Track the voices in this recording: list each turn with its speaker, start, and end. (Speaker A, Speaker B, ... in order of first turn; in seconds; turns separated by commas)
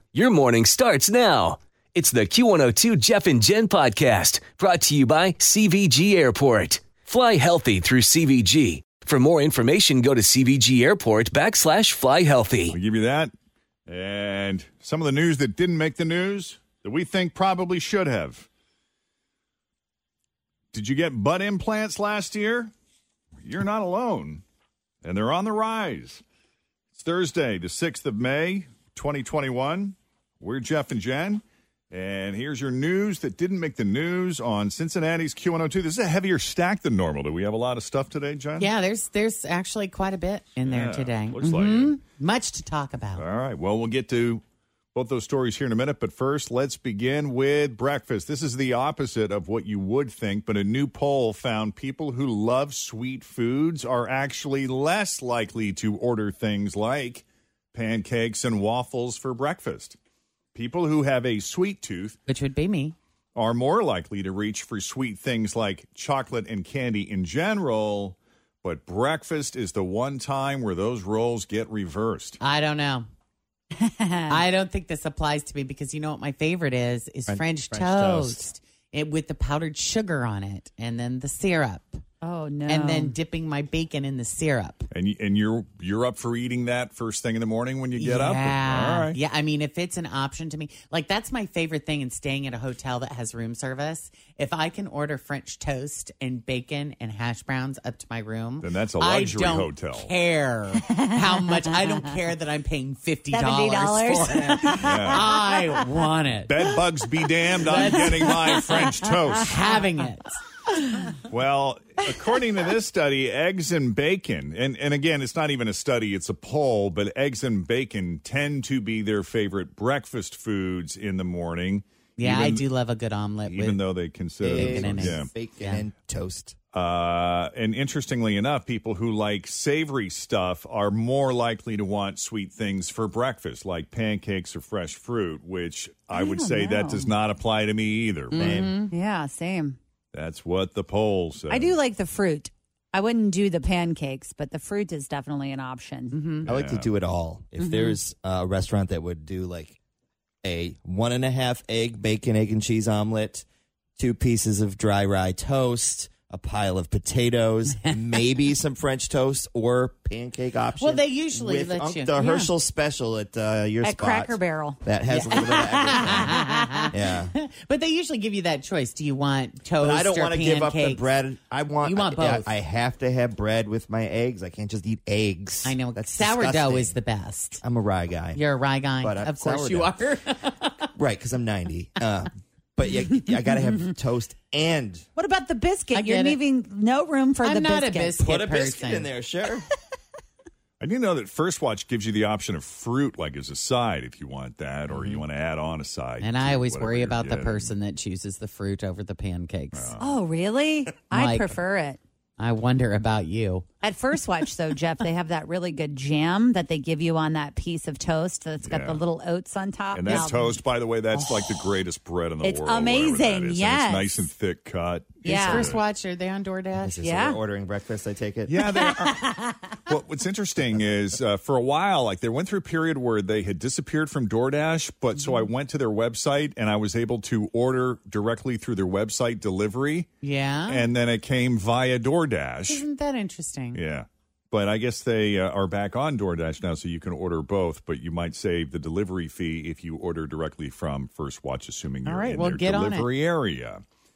Speaker A: 0.1-12.7, Speaker B: 12.7-13.3, Speaker B: 13.9-18.5, Speaker B: 20.7-22.7, Speaker B: 23.4-24.4, Speaker B: 25.0-26.2, Speaker B: 26.9-38.7, Speaker C: 38.6-43.2, Speaker B: 40.6-42.0, Speaker B: 43.1-44.4, Speaker B: 44.9-60.0, Speaker B: 60.5-62.1, Speaker C: 62.3-62.9, Speaker B: 63.3-72.4, Speaker C: 72.4-73.1, Speaker D: 73.8-74.3, Speaker C: 74.3-82.0, Speaker E: 77.3-78.5, Speaker D: 82.2-83.1, Speaker C: 82.7-84.9, Speaker B: 84.9-89.2, Speaker C: 88.0-106.5, Speaker B: 98.6-100.1, Speaker D: 103.3-105.4, Speaker B: 104.8-105.3, Speaker B: 106.4-109.5, Speaker C: 107.6-108.6, Speaker D: 107.8-108.9, Speaker C: 109.4-110.4, Speaker B: 111.3-122.6, Speaker C: 122.2-123.8, Speaker B: 123.4-125.3, Speaker E: 124.4-126.5, Speaker C: 124.5-125.8, Speaker B: 126.7-138.7, Speaker D: 136.1-137.1, Speaker C: 138.3-138.9, Speaker E: 138.4-138.8, Speaker D: 138.9-139.8, Speaker B: 140.1-141.8, Speaker D: 141.5-146.2, Speaker C: 146.1-146.5, Speaker B: 146.4-146.9, Speaker E: 146.4-149.8, Speaker D: 147.6-148.0, Speaker E: 150.4-153.4, Speaker E: 154.0-167.3, Speaker C: 160.8-162.3, Speaker D: 162.2-162.5, Speaker D: 163.8-166.9, Speaker C: 165.3-166.8, Speaker C: 167.3-171.1, Speaker E: 169.8-177.0, Speaker C: 171.8-172.5, Speaker C: 175.6-177.6, Speaker E: 177.6-178.4, Speaker C: 178.3-180.9, Speaker E: 179.0-180.0, Speaker E: 180.9-185.0, Speaker D: 185.2-188.1, Speaker C: 185.9-186.4, Speaker C: 187.4-189.1, Speaker E: 188.2-189.7, Speaker B: 190.8-197.7, Speaker C: 194.9-195.2, Speaker C: 196.2-199.9, Speaker B: 199.7-200.0, Speaker D: 200.0-202.0, Speaker C: 201.1-201.6, Speaker C: 202.4-203.7, Speaker D: 203.8-211.7, Speaker B: 208.7-209.0, Speaker B: 209.9-215.8, Speaker D: 212.4-214.3, Speaker D: 215.2-215.7, Speaker C: 215.2-216.9, Speaker E: 215.4-215.7, Speaker E: 216.8-218.5, Speaker D: 217.0-217.4, Speaker B: 218.5-230.1, Speaker D: 218.6-219.6, Speaker C: 230.2-230.9, Speaker B: 230.7-232.8, Speaker C: 232.7-233.8, Speaker B: 233.7-243.8, Speaker C: 242.1-243.1